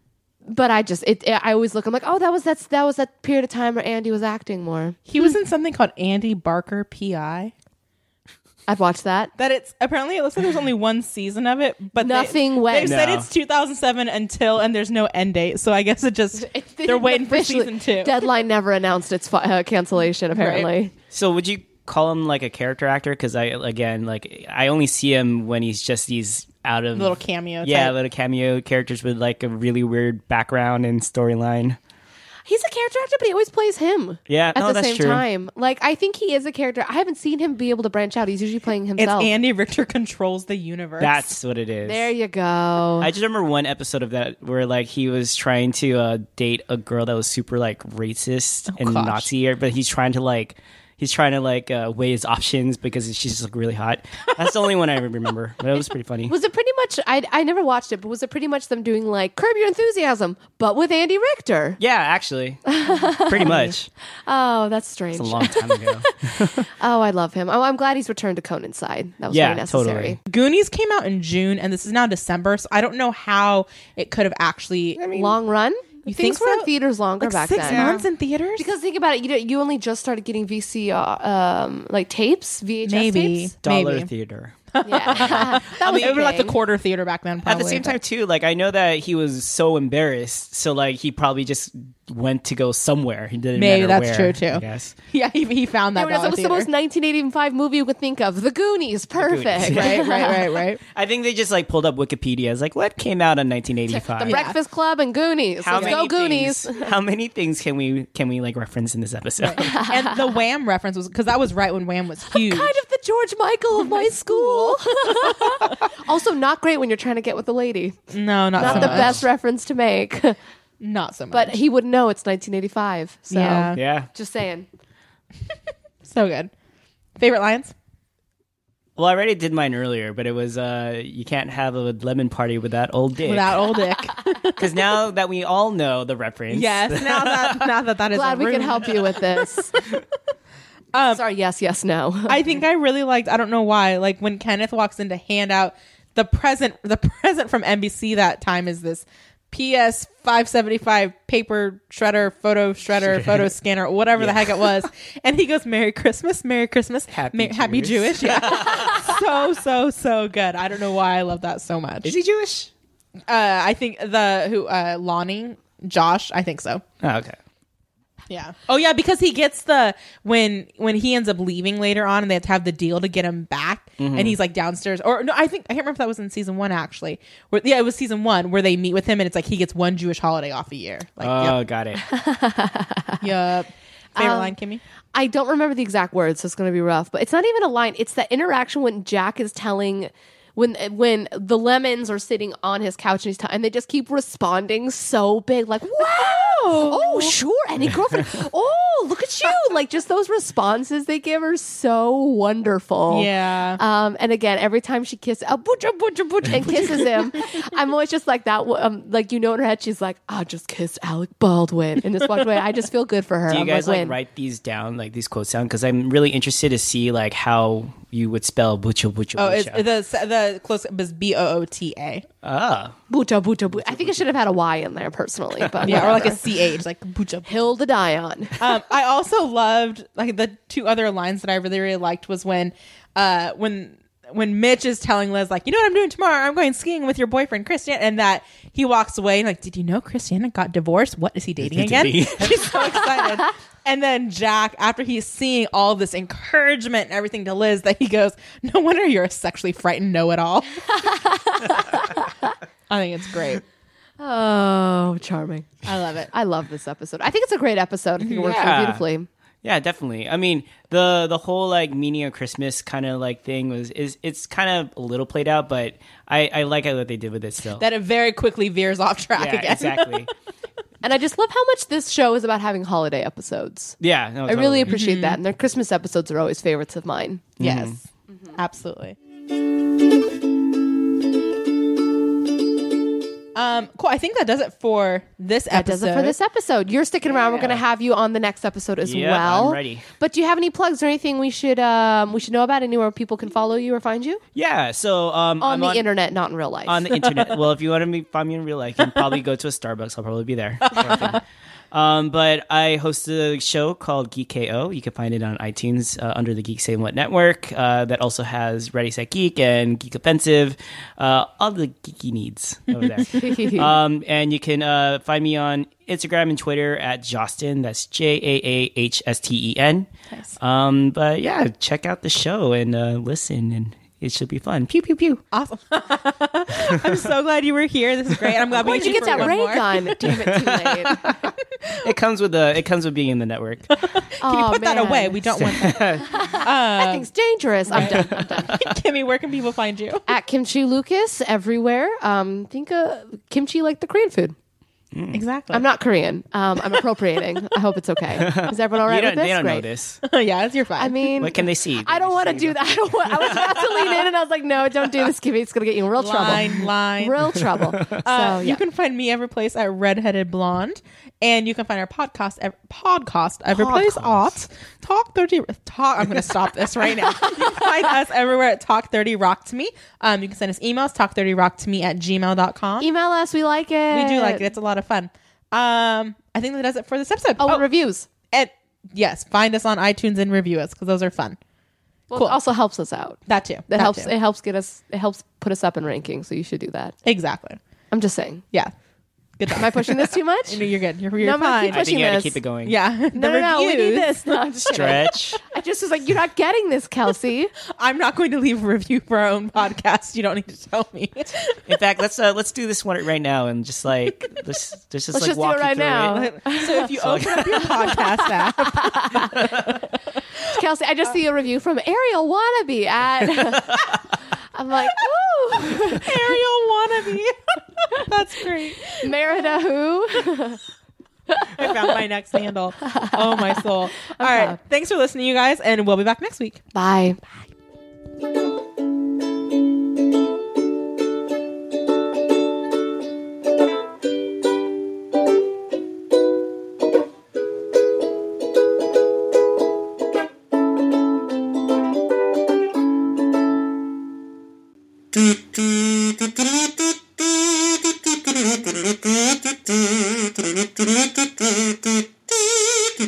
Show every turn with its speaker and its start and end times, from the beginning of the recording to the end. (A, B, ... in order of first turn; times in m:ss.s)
0:00.4-0:05.3 A
0:05.1-0:07.5 B
0:08.7-0:09.3 A
0:09.4-0:18.2 B
0:12.0-0:13.0 A
0:12.8-0:13.3 C
0:16.3-0:20.9 A
0:20.3-0:20.7 B
0:21.1-0:31.8 C
0:26.9-0:27.9 B
0:32.4-0:39.3 A
0:34.3-0:35.2 C
0:39.0-0:41.3 B
0:41.0-0:42.1 C
0:41.8-0:43.1 A
0:43.0-0:56.3 C
0:48.7-0:49.3 B
0:56.3-1:01.8 A
1:01.8-1:02.6 C
1:02.6-1:03.6 A
1:03.2-1:03.9 C
1:03.4-1:03.7 B
1:04.2-1:10.2 A
1:05.1-1:06.7 C
1:09.3-1:10.2 C
1:10.3-1:15.3 B
1:15.0-1:18.0 A
1:16.0-1:16.7 B
1:17.2-1:18.7 B
1:17.6-1:18.0 C
1:18.6-1:23.5 A
1:22.8-1:24.1 B
1:23.6-1:24.6 C
1:24.7-1:28.0 B
1:24.8-1:26.6 A
1:25.1-1:26.2 C
1:27.4-1:34.9 C
1:33.6-1:36.7 B
1:35.9-1:40.5 A
1:39.1-1:40.1 C
1:39.6-1:40.8 B
1:40.9-1:44.4 C
1:43.9-1:46.9 A
1:44.2-1:44.6 B
1:45.6-1:49.8 C
1:45.8-1:46.0 B
1:49.4-1:52.8 B
1:49.6-1:50.2 A
1:52.3-2:00.4 A
1:53.8-1:55.8 B
1:58.1-1:59.2 B
1:58.6-1:59.2 C
2:00.8-2:01.6 B
2:01.3-2:04.7 A
2:03.3-2:03.8 B
2:03.8-2:04.1 C
2:06.0-2:06.5 B
2:07.2-2:07.7 B
2:09.0-2:13.6 C
2:13.2-2:14.6 B
2:14.6-2:17.7 C
2:16.5-2:19.8 B
2:18.1-2:19.7 A
2:20.9-2:21.2 B
2:21.1-2:22.4 A
2:22.3-2:42.1 B
2:33.0-2:33.5 C
2:34.2-2:34.7 C
2:37.1-2:39.1 C
2:42.0-2:42.7 C
2:43.3-2:46.8 B
2:47.0-2:47.4 C
2:48.3-3:01.6 B
2:54.0-2:54.4 C
3:01.2-3:02.0 C
3:02.0-3:03.2 A
3:03.2-3:04.8 B
3:04.2-3:04.5 A
3:05.1-3:34.2 A
3:16.4-3:17.3 B
3:23.1-3:23.8 B
3:33.5-3:39.8 C
3:39.4-3:42.2 B
3:42.4-3:43.0 C
3:43.1-3:46.4 A
3:43.7-3:44.2 C
3:45.8-3:46.2 C
3:45.8-3:47.6 B
3:47.4-3:48.7 A
3:48.6-4:11.1 B
4:01.6-4:03.0 C
4:10.9-4:12.5 A
4:12.9-4:13.6 B
4:14.2-4:15.8 A
4:15.8-4:16.3 B
4:16.3-4:19.3 A
4:18.2-4:18.5 B
4:18.4-4:19.0 C
4:19.6-4:27.8 C
4:27.8-4:30.3 B
4:29.4-4:30.3 C
4:31.0-4:37.6 A
4:34.0-4:34.9 C
4:34.9-4:35.4 B
4:37.6-4:38.0 C
4:37.6-4:38.0 B
4:38.5-4:39.2 B
4:43.5-4:46.3 B
4:45.7-4:54.4 A
4:49.0-4:50.0 C
4:54.5-4:56.0 C
4:55.6-4:57.2 A
4:56.8-5:01.4 C
5:01.9-5:20.1 C
5:13.3-5:13.9 A
5:20.3-5:20.6 B
5:20.6-5:25.4 C
5:25.5-5:30.2 B
5:26.8-5:27.2 C
5:28.7-5:29.5 C
5:28.8-5:31.4 A
5:30.2-5:33.9 C
5:33.9-5:37.3 B
5:34.4-5:38.8 A
5:35.6-5:36.3 C
5:37.9-5:40.2 B
5:38.0-5:38.9 C
5:40.3-5:44.5 A
5:45.1-5:45.4 C
5:45.3-5:45.8 B
5:45.7-5:49.8 A
5:48.4-5:50.2 C
5:50.2-5:51.2 B
5:51.0-5:58.8 A
5:51.4-5:54.3 C
5:56.2-5:57.6 B
5:58.2-6:13.1 B
6:03.7-6:04.5 C
6:07.4-6:08.0 A
6:13.0-6:14.7 A
6:14.1-6:17.8 B
6:17.6-6:18.3 A
6:18.5-6:21.6 B
6:22.3-6:27.2 A
6:23.5-6:24.3 B
6:27.2-6:27.8 B
6:28.1-6:28.6 A
6:29.6-6:32.0 B
6:29.7-6:30.8 A
6:31.4-6:32.6 A
6:31.9-6:33.0 C
6:32.8-6:34.6 B
6:33.3-6:37.7 A
6:34.9-6:35.6 C
6:38.0-6:41.8 B
6:41.9-6:46.4 C
6:45.3-6:49.7 A
6:46.3-6:49.8 B
6:47.1-6:47.9 C
6:49.5-6:49.9 C
6:50.5-6:56.6 A
6:55.9-6:59.3 B
6:59.2-7:00.8 A
7:01.5-7:01.9 A
7:01.7-7:06.8 B
7:03.0-7:04.8 A
7:06.9-7:07.4 A